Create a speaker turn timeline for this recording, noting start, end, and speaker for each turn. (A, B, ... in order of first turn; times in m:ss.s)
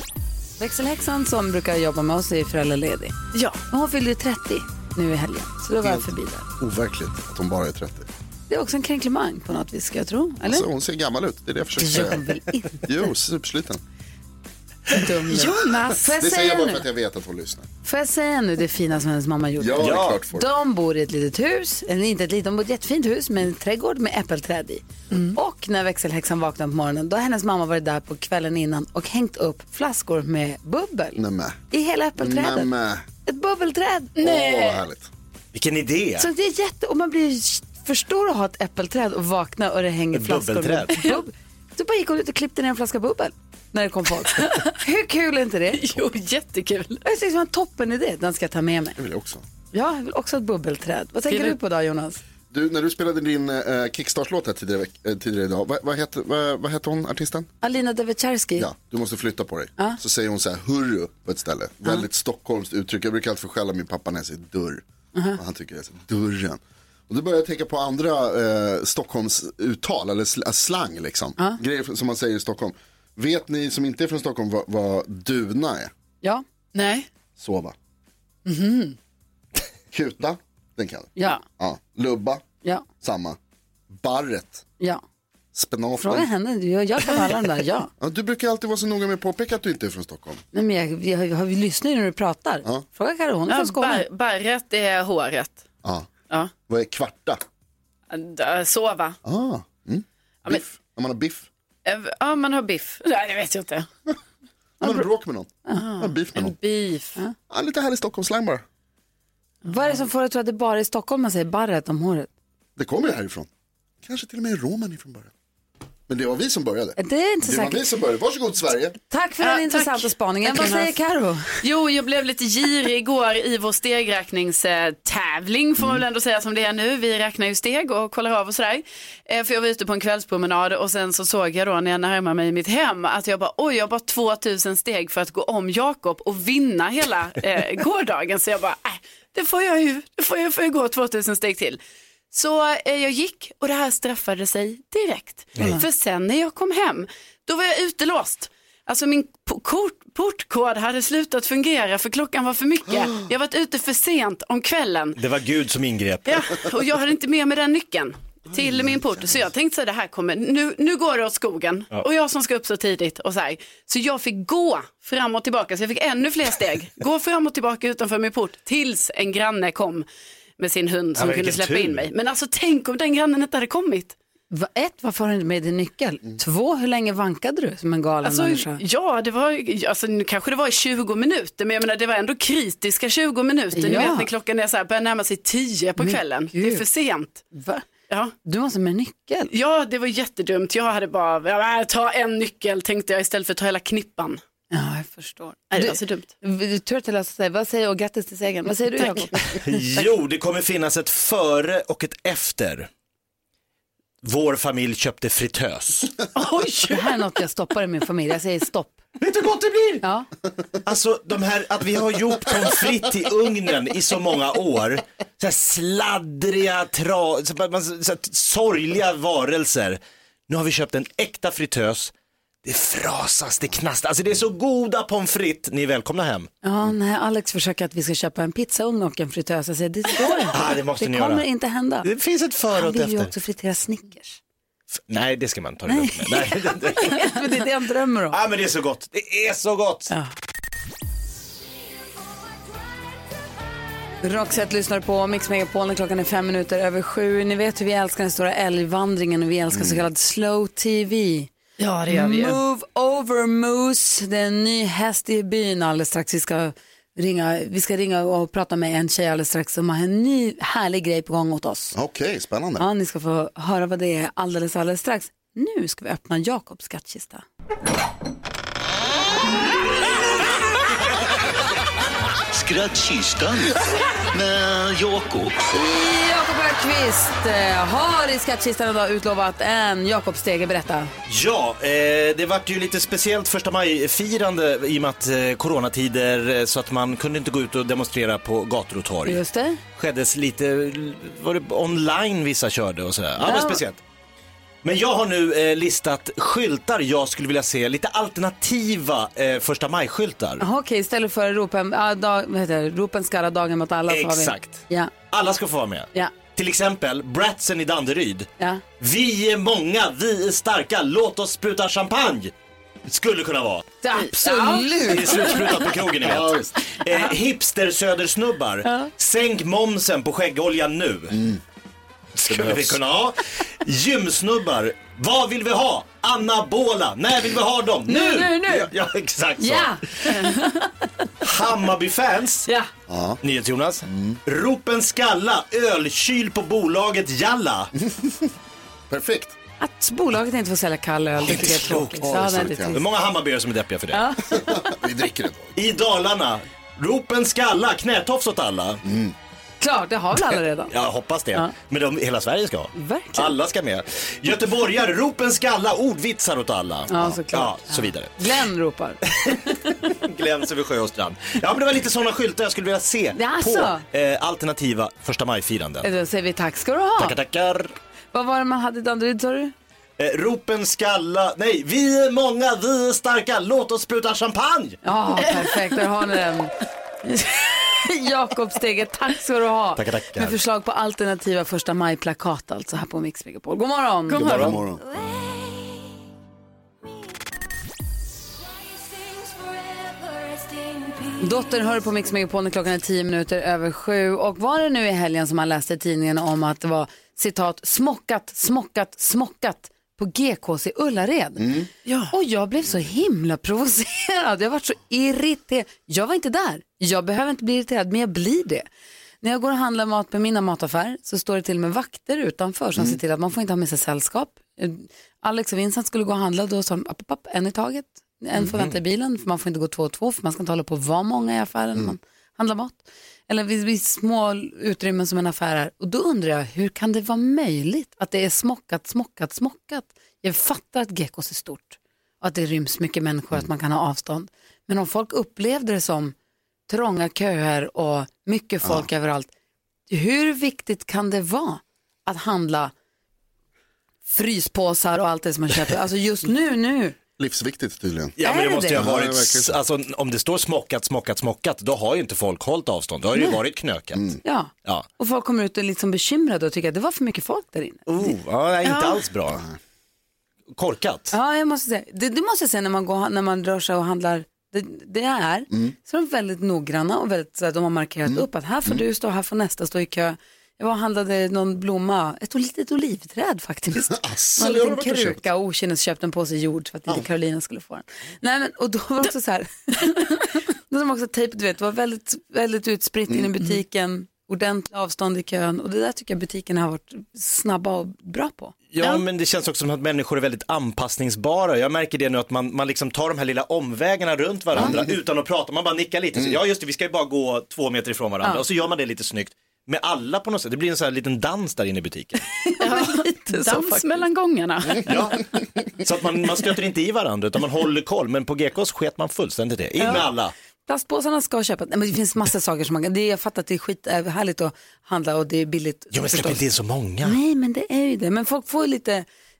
0:00.6-0:03.1 A
0:03.3-0:03.6 B
0:03.7-0:06.5 A
0:05.8-0:06.1 C
0:06.6-0:08.1 C
0:08.5-0:10.6 A
0:10.4-0:12.2 C
0:11.8-0:13.0 A
0:12.8-0:13.8 C
0:14.9-0:16.8 A
0:15.4-0:17.7 C
0:17.8-0:31.2 A
0:19.6-0:20.5 C
0:19.8-0:20.2 D
0:31.2-0:31.6 C
0:31.7-0:32.7 A
0:32.2-0:33.0 C
0:33.2-0:34.1 A
0:34.2-0:34.8 B
0:34.2-0:35.1 C
0:35.5-0:36.3 D
0:36.2-0:45.8 A
0:40.1-0:41.0 D
0:45.7-0:47.0 B
0:47.0-0:49.0 A
0:49.0-0:49.4 C
0:49.7-0:52.2 A
0:51.3-0:51.6 B
0:52.5-0:57.5 C
0:57.6-0:58.7 A
0:58.6-1:04.8 C
1:05.3-1:15.9 C
1:16.7-1:17.1 B
1:17.4-1:17.7 C
1:18.4-1:18.9 A
1:19.9-1:22.4 C
1:21.2-1:21.4 A
1:23.0-1:23.4 C
1:23.9-1:24.6 C
1:25.5-1:26.3 C
1:26.0-1:27.9 A
1:28.0-1:30.4 C
1:30.5-1:34.0 A
1:33.5-1:35.6 B
1:35.8-1:36.1 C
1:36.7-1:37.4 C
1:38.1-1:39.2 B
1:39.2-1:41.5 C
1:41.8-1:43.9 B
1:44.8-1:45.0 A
1:44.8-1:46.6 C
1:45.6-1:45.9 A
1:45.8-1:47.2 B
1:47.5-1:48.6 C
1:49.6-1:52.3 A
1:52.8-1:53.5 C
1:54.0-1:55.3 C
1:56.1-1:59.0 C
1:57.0-1:57.9 A
1:59.1-2:01.6 A
1:59.4-2:00.9 B
2:01.6-2:21.8 B
2:22.3-2:35.2 B
2:35.2-2:36.4 D
2:36.3-2:50.0 B
2:38.5-2:39.5 C
2:50.6-2:54.1 B
2:51.1-2:52.1 D
2:54.5-2:58.8 A
2:58.2-3:07.4 B
3:03.7-3:04.3 A
3:06.0-3:06.8 A
3:07.5-3:07.8 A
3:08.1-3:08.3 B
3:08.4-3:09.5 A
3:09.5-3:14.4 B
3:14.7-3:20.0 A
3:15.7-3:16.3 B
3:18.9-3:19.3 B
3:19.5-3:22.9 D
3:24.2-3:26.1 D
3:26.3-3:27.1 B
3:26.9-3:29.0 A
3:29.2-3:30.0 D
3:30.0-3:30.3 A
3:30.8-3:42.1 D
3:42.6-3:46.5 D
3:46.6-3:52.1 A
3:50.5-3:51.4 D
3:52.0-3:53.3 D
3:52.7-3:54.4 A
3:55.1-3:57.4 D
3:55.9-3:58.4 A
3:58.3-4:00.1 D
4:04.2-4:11.5 A
4:09.7-4:10.0 C
4:11.8-4:12.6 B
4:12.1-4:22.0 A
4:21.9-4:22.9 C
4:22.8-4:27.4 A
4:32.5-4:33.8 E
4:34.3-4:35.5 E
4:35.7-4:41.1 A
4:41.3-4:49.4 D
4:49.2-4:49.8 A
4:49.9-4:54.0 D
4:53.4-4:53.8 A
4:54.8-5:00.6 D
5:00.6-5:05.1 A
5:04.1-5:08.5 D
5:09.0-5:12.5 D
5:13.1-5:13.8 D
5:14.0-5:15.6 A
5:14.1-5:14.9 B
5:15.0-5:21.4 D
5:16.2-5:16.7 C
5:18.8-5:19.1 A
5:21.3-5:21.6 C
5:22.4-5:30.3 D
5:22.5-5:23.0 C
5:28.1-5:28.9 A
5:29.6-5:31.0 A
5:31.4-5:32.7 D
5:33.1-5:33.4 C
5:33.4-5:37.9 D
5:34.0-5:34.4 C
5:39.1-5:39.6 C
5:39.8-5:43.0 A
5:41.4-5:42.4 D
5:42.2-5:43.0 C
5:42.9-5:44.3 D
5:44.1-5:44.7 A
5:44.5-5:45.8 C
5:45.8-5:49.0 D
5:49.0-5:49.3 C
5:49.8-5:50.9 A
5:50.9-5:58.3 D
5:52.9-5:53.6 A
5:57.1-6:00.1 A
5:59.3-6:06.1 D
6:03.3-6:04.0 A
6:06.0-6:07.4 A
6:07.2-6:07.9 D
6:08.3-6:09.7 A
6:10.2-6:15.0 D
6:15.0-6:16.7 A
6:17.2-6:24.5 A
6:20.0-6:20.6 D
6:24.3-6:24.8 B
6:24.3-6:25.0 C
6:31.4-6:41.7 A
6:41.6-6:41.9 C
6:42.0-6:42.3 B
6:42.3-6:48.8 A
6:49.4-7:16.3 A
6:58.6-6:58.9 D
7:16.9-7:19.5 A
7:20.1-7:22.9 A
7:24.3-7:27.2 A
7:27.4-7:28.3 C
7:28.4-7:35.1 D
7:28.4-7:29.0 A
7:28.9-7:29.8 C
7:34.4-7:38.1 A
7:38.1-7:39.6 D
7:38.8-7:39.2 B
7:40.7-7:41.3 D
7:41.3-8:08.7 A
7:48.2-7:49.0 C
7:53.9-7:55.4 C
8:08.9-8:22.4 D
8:14.7-8:15.1 C
8:22.6-8:24.1 A
8:22.8-8:25.1 B
8:25.0-8:25.4 D
8:26.0-8:30.5 D
8:30.0-8:30.2 A
8:30.9-8:36.6 A
8:36.1-8:37.4 D
8:37.2-8:39.2 A